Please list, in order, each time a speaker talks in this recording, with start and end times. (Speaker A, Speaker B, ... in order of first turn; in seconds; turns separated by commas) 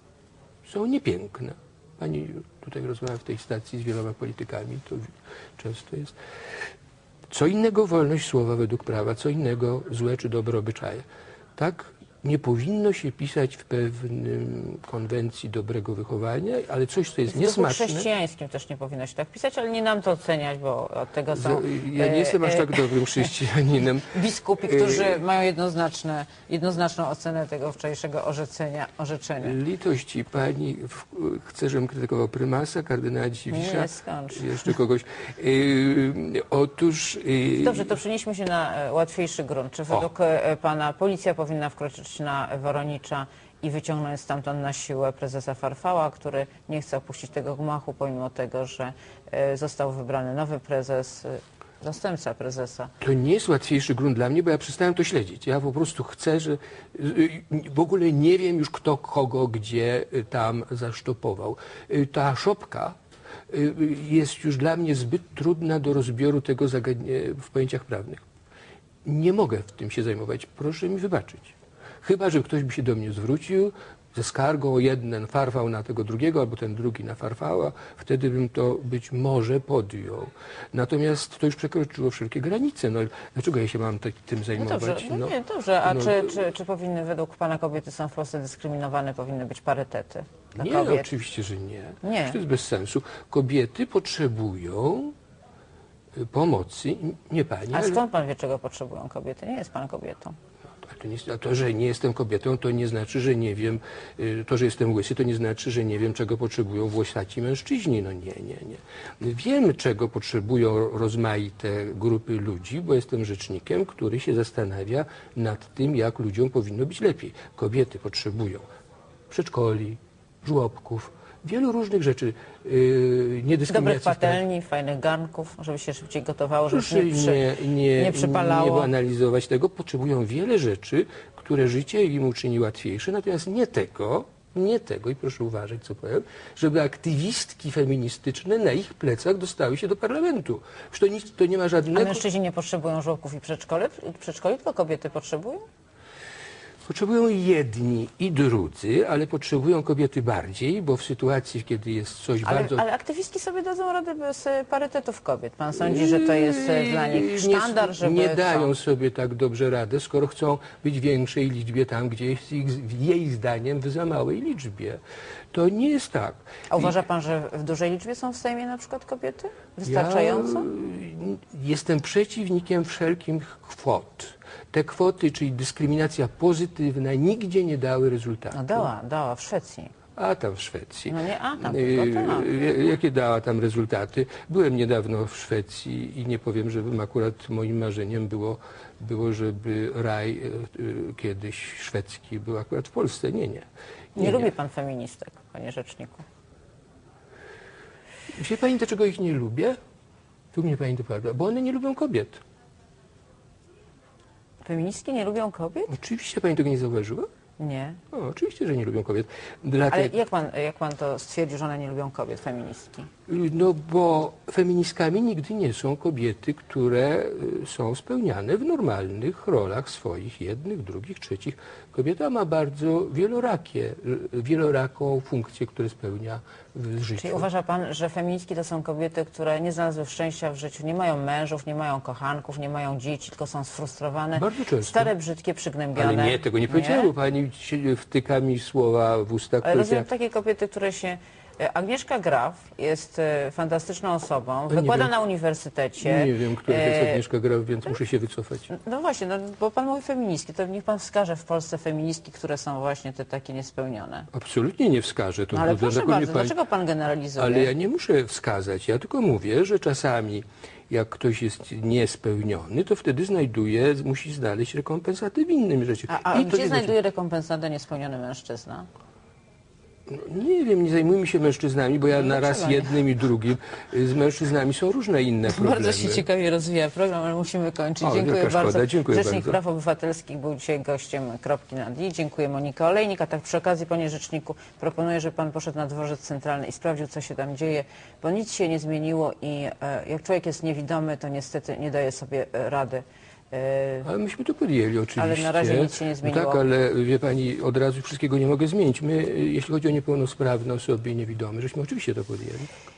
Speaker A: 0.6-6.2, Speaker A: 7.3-11.0, Speaker A: 11.6-18.1, Speaker B: 17.3-23.3, Speaker A: 21.3-25.2, Speaker B: 24.1-29.6, Speaker A: 29.4-38.0, Speaker B: 33.5-34.7, Speaker B: 37.6-52.9, Speaker A: 53.0-63.0, Speaker A: 63.5-68.2, Speaker A: 69.0-85.3, Speaker B: 84.5-91.1, Speaker A: 85.8-86.4, Speaker A: 90.5-95.1, Speaker B: 92.0-92.4, Speaker A: 96.2-98.0, Speaker B: 97.7-100.4, Speaker A: 100.8-118.6, Speaker A: 119.3-124.4, Speaker B: 123.7-127.4, Speaker A: 126.7-142.2, Speaker B: 127.9-128.9, Speaker B: 141.9-145.6, Speaker A: 146.8-152.8, Speaker B: 152.4-158.7, Speaker A: 155.8-165.0, Speaker A: 165.5-166.9, Speaker B: 166.7-170.7, Speaker A: 169.8-178.9, Speaker B: 178.5-179.9, Speaker A: 180.2-194.5, Speaker B: 181.1-182.6, Speaker B: 194.2-196.2, Speaker A: 198.3-199.8, Speaker A: 200.5-202.4, Speaker B: 204.6-205.9, Speaker A: 205.9-207.3, Speaker B: 207.6-208.0, Speaker A: 208.1-210.1, Speaker B: 209.9-213.1, Speaker A: 213.3-227.5, Speaker B: 227.2-237.1, Speaker A: 234.3-235.1, Speaker A: 235.9-240.1, Speaker B: 239.6-247.2, Speaker A: 244.7-245.1, Speaker A: 246.0-248.7, Speaker B: 248.7-254.3, Speaker A: 254.3-256.5, Speaker B: 255.5-257.7, Speaker A: 257.4-266.9, Speaker B: 266.1-268.9, Speaker A: 270.1-276.2, Speaker B: 272.1-273.0, Speaker B: 275.4-294.1, Speaker A: 278.0-279.6, Speaker A: 294.0-302.7, Speaker B: 295.1-296.6